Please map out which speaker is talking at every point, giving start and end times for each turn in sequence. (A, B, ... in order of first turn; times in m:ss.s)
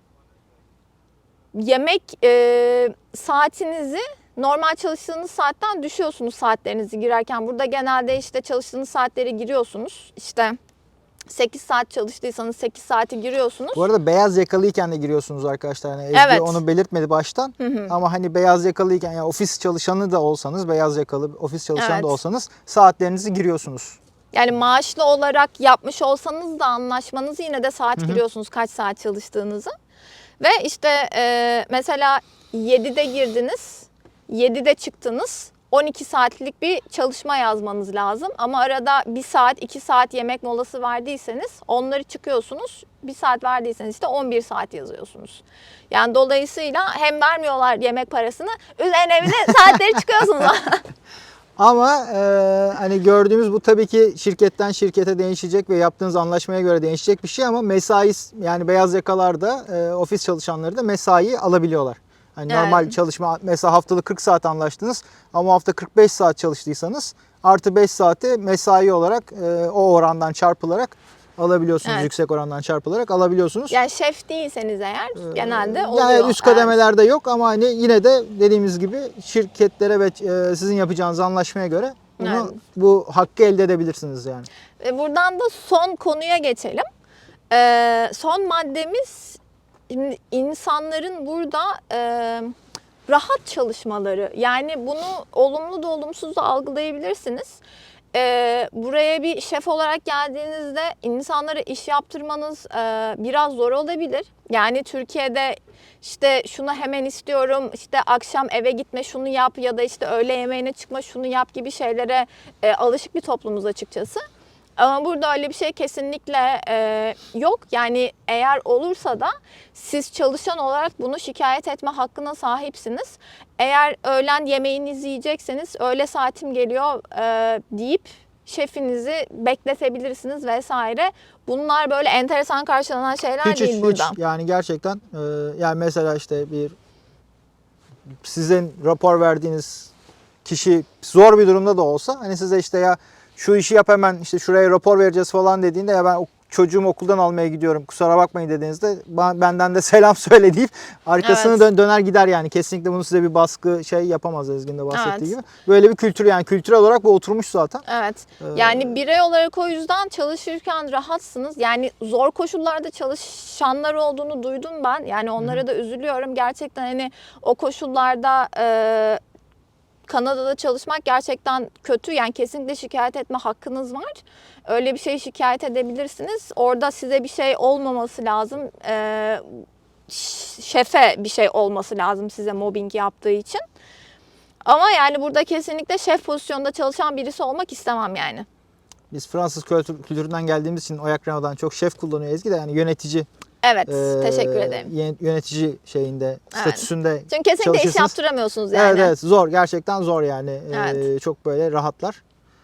0:01.5-0:10.6 A
0:11.3-0:13.9 A
0:13.8-0:24.0 B
0:16.1-0:16.6 A
0:17.6-0:17.9 A
0:21.8-0:22.2 A
0:24.3-0:29.7 A
0:30.4-0:50.8 A
0:51.6-1:13.8 B
1:02.5-1:02.9 A
1:13.7-1:16.8 A
1:15.2-1:24.5 B
1:22.2-1:22.6 A
1:24.8-1:26.9 A
1:27.5-1:32.5 A
1:33.1-1:37.6 A
1:38.1-1:54.2 A
1:54.8-2:14.2 A
2:13.4-2:16.8 B
2:18.2-2:19.9 B
2:20.4-2:37.8 B
2:31.2-2:31.6 A
2:34.9-2:35.3 A
2:37.9-2:49.2 A
2:38.4-2:39.0 B
2:50.1-3:03.6 A
3:04.6-3:08.5 A
3:09.1-3:13.3 B
3:13.6-3:14.9 A
3:13.9-3:18.1 B
3:16.5-3:19.1 A
3:18.7-3:22.2 B
3:20.7-3:21.1 A